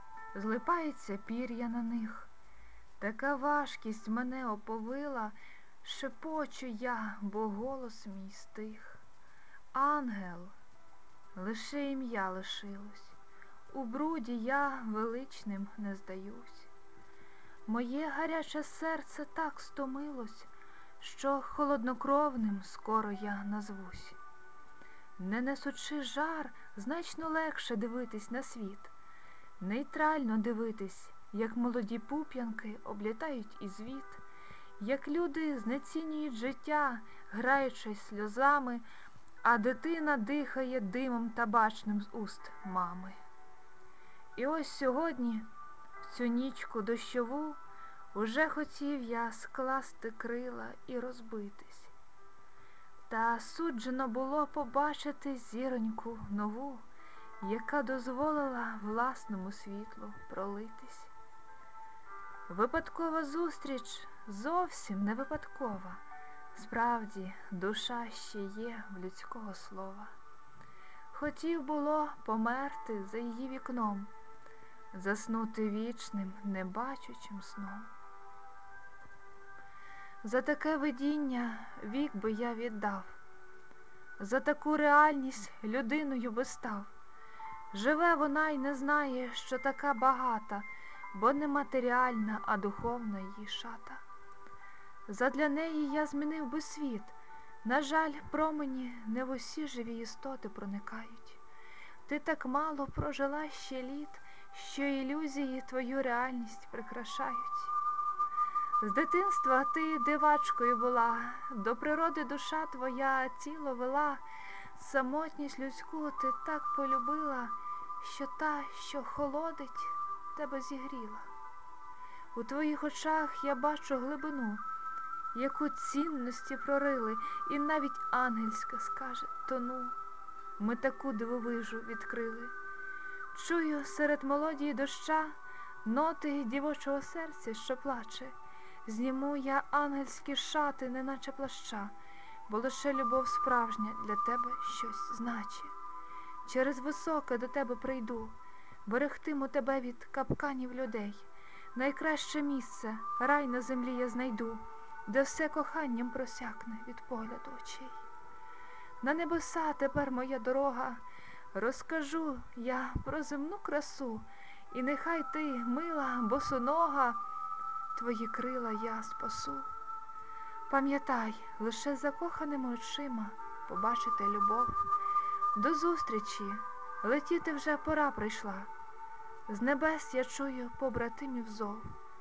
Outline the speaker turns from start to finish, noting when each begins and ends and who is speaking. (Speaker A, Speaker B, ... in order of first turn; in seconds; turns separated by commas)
Speaker A: 0.3-2.3, Speaker A: 3.0-9.0, Speaker A: 9.7-10.5, Speaker A: 11.3-13.2, Speaker A: 13.7-16.7, Speaker A: 17.7-20.5, Speaker A: 21.0-24.2, Speaker A: 25.2-28.9, Speaker A: 29.6-34.2, Speaker A: 34.8-38.8, Speaker A: 39.4-43.2, Speaker A: 44.4-45.5, Speaker A: 46.0-47.6, Speaker A: 48.1-51.9, Speaker A: 53.1-56.9, Speaker A: 57.4-61.1, Speaker A: 62.5-66.0, Speaker A: 66.5-70.1, Speaker A: 71.1-74.1, Speaker A: 74.9-77.9, Speaker A: 80.2-83.2, Speaker A: 84.2-86.9, Speaker A: 87.7-94.0, Speaker A: 95.1-101.4, Speaker A: 102.1-107.7, Speaker A: 108.8-114.2, Speaker A: 114.7-121.3, Speaker A: 122.3-124.6, Speaker A: 125.3-130.0, Speaker A: 130.6-132.5, Speaker A: 133.3-138.3, Speaker A: 138.8-141.9, Speaker A: 142.5-145.7, Speaker A: 146.4-148.3, Speaker A: 148.9-158.0, Speaker A: 159.0-161.0, Speaker A: 161.5-167.2, Speaker A: 167.9-169.7, Speaker A: 170.7-174.8, Speaker A: 175.6-178.7, Speaker A: 179.5-181.9